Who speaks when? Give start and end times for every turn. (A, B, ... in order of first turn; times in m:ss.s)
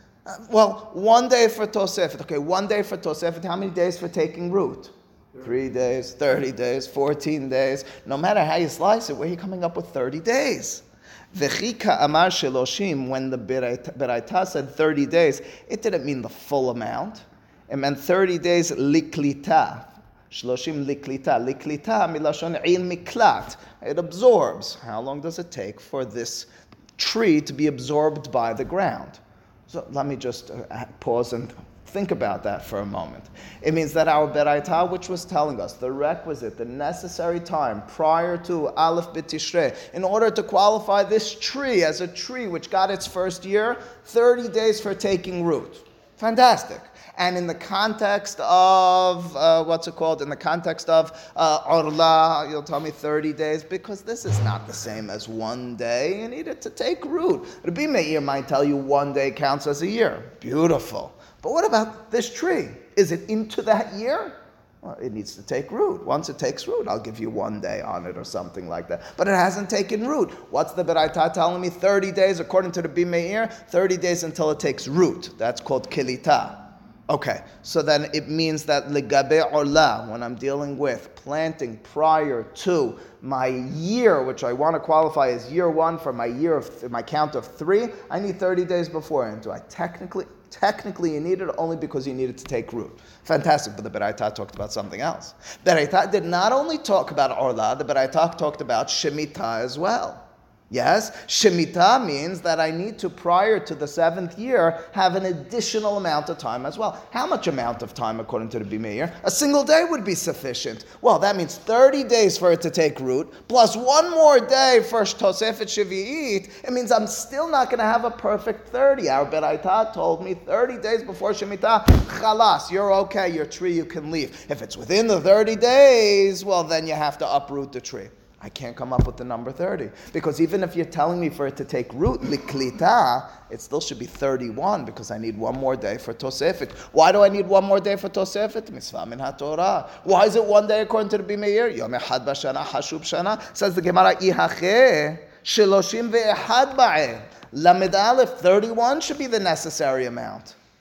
0:00.2-2:30.6 A